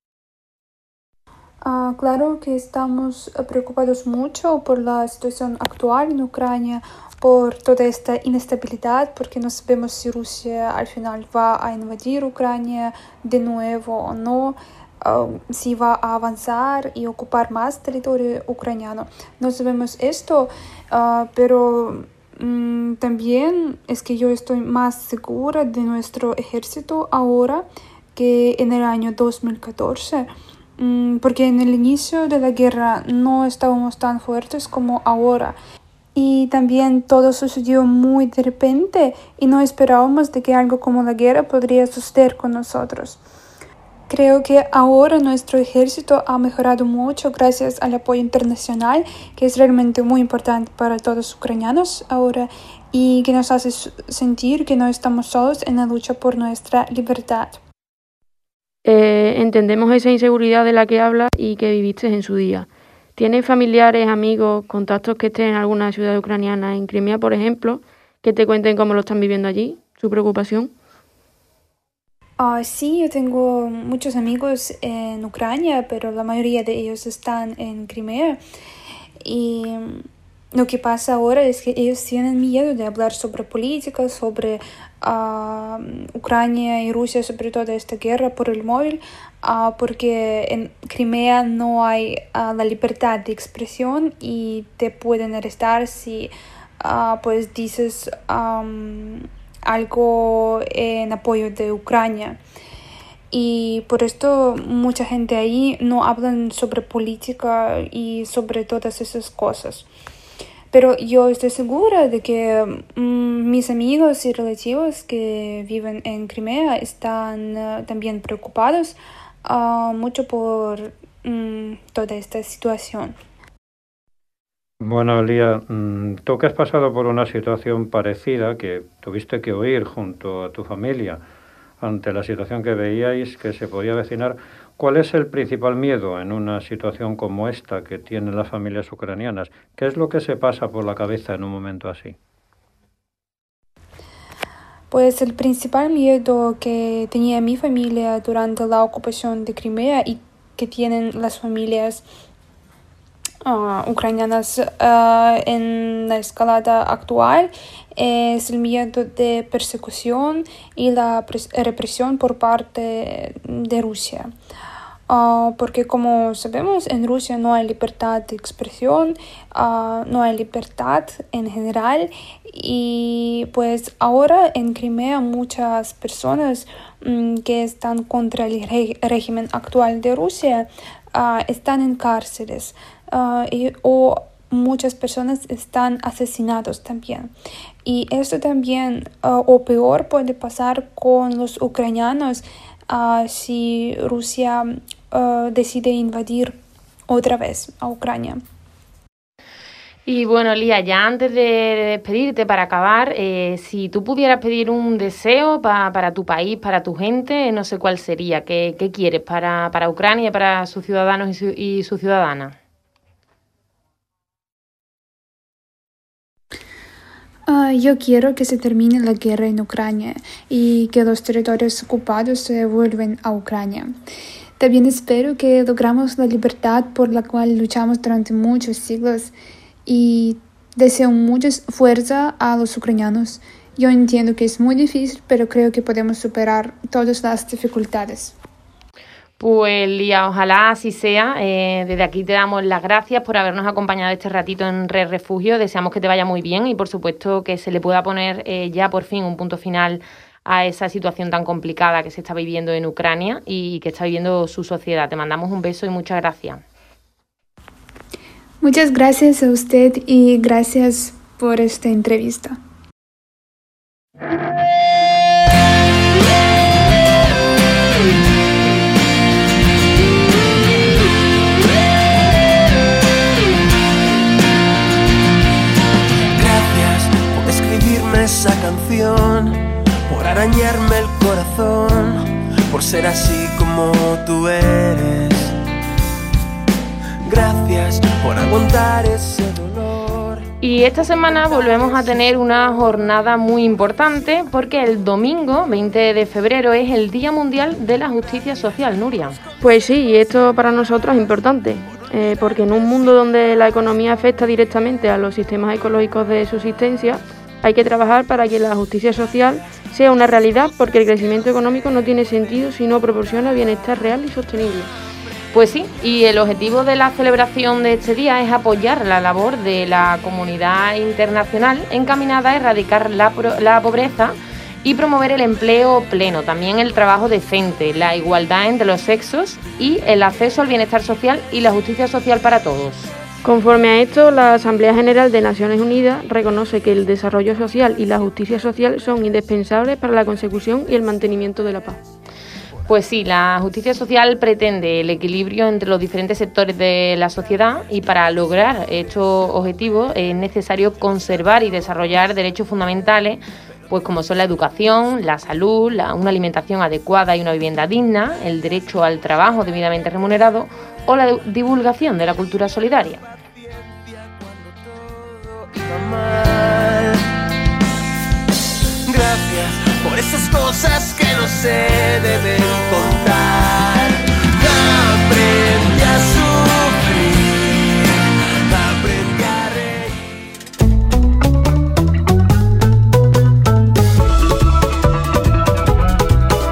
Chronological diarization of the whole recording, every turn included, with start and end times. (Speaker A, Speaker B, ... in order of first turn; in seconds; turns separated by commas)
Speaker A: 1.6-35.6, Speaker A: 36.1-43.2, Speaker A: 44.1-57.6, Speaker B: 58.8-70.7, Speaker A: 72.4-78.4, Speaker A: 79.2-102.4, Speaker A: 103.3-109.9, Speaker A: 110.7-123.1, Speaker C: 124.8-131.2, Speaker C: 131.8-142.2, Speaker A: 144.9-152.0, Speaker A: 153.4-164.3, Speaker A: 165.1-187.3, Speaker A: 187.8-196.6, Speaker A: 197.1-198.4, Speaker D: 200.1-212.5, Speaker A: 217.5-224.0, Speaker A: 224.6-229.3, Speaker A: 229.8-238.3, Speaker D: 239.4-256.6, Speaker A: 258.6-262.6, Speaker E: 276.3-285.5, Speaker E: 287.2-290.5, Speaker D: 290.6-299.4, Speaker B: 299.6-314.9, Speaker D: 315.5-333.1, Speaker B: 333.4-342.0, Speaker D: 342.9-363.2, Speaker E: 364.1-367.2, Speaker E: 369.1-380.2